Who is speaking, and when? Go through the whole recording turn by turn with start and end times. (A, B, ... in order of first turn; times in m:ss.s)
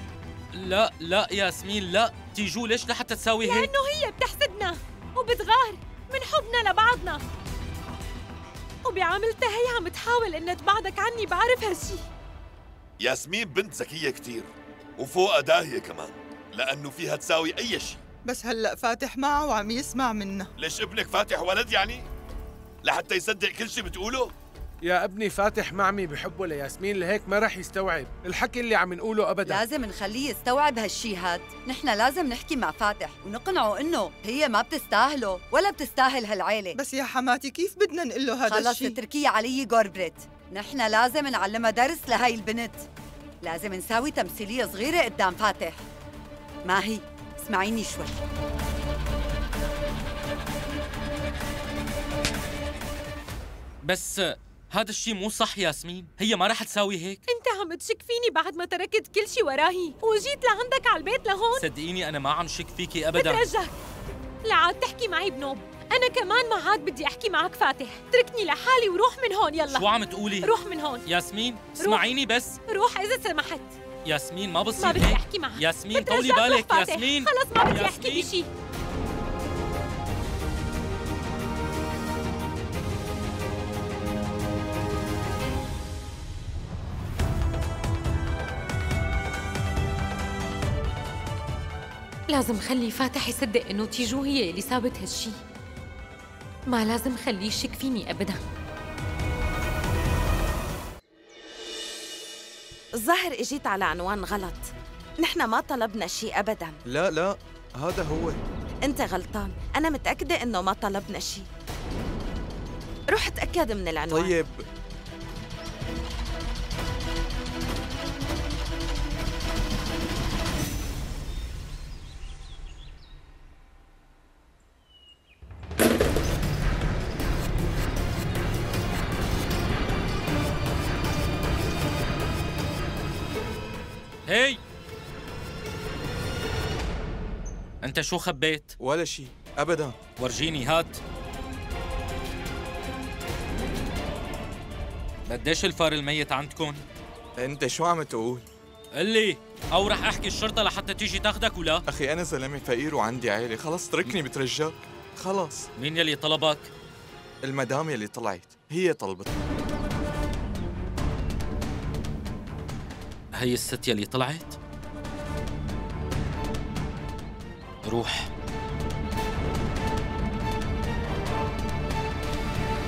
0:00.5-0:03.7 A
0:03.4-0:07.2 B
0:08.8-0:12.0 B
0:13.0-0:18.0 C
0:18.3-0:20.5 D
0:20.6-0:22.0 C
0:22.8-0:24.3 C
0:24.8-0:29.6 E
0:29.5-0:36.8 F
0:36.8-0:39.0 D
0:38.5-0:42.9 F
0:43.4-0:45.9 F
0:46.6-0:48.2 F
0:53.8-0:57.2 A
0:57.3-1:01.6 B
1:01.6-1:03.5 A
1:03.2-1:03.8 B
1:04.4-1:09.9 B
1:09.7-1:12.6 A
1:10.4-1:11.0 B
1:11.8-1:12.0 B
1:12.7-1:13.8 B
1:14.0-1:18.3 A
1:14.8-1:18.5 B
1:32.3-1:35.4 B
1:36.7-1:38.4 B
1:43.0-1:46.8 G
1:46.9-1:48.4 H
1:48.8-1:51.5 G
1:53.1-1:54.4 G
1:54.1-1:54.6 H
2:14.3-2:14.6 A
2:17.8-2:18.7 A
2:18.8-2:20.0 H
2:20.2-2:21.0 A
2:25.3-2:26.8 A
2:27.4-2:28.4 H
2:29.0-2:31.8 A
2:31.9-2:35.7 H
2:35.8-2:36.7 A
2:37.4-2:39.3 H
2:43.4-2:44.6 A
2:47.8-2:48.3 A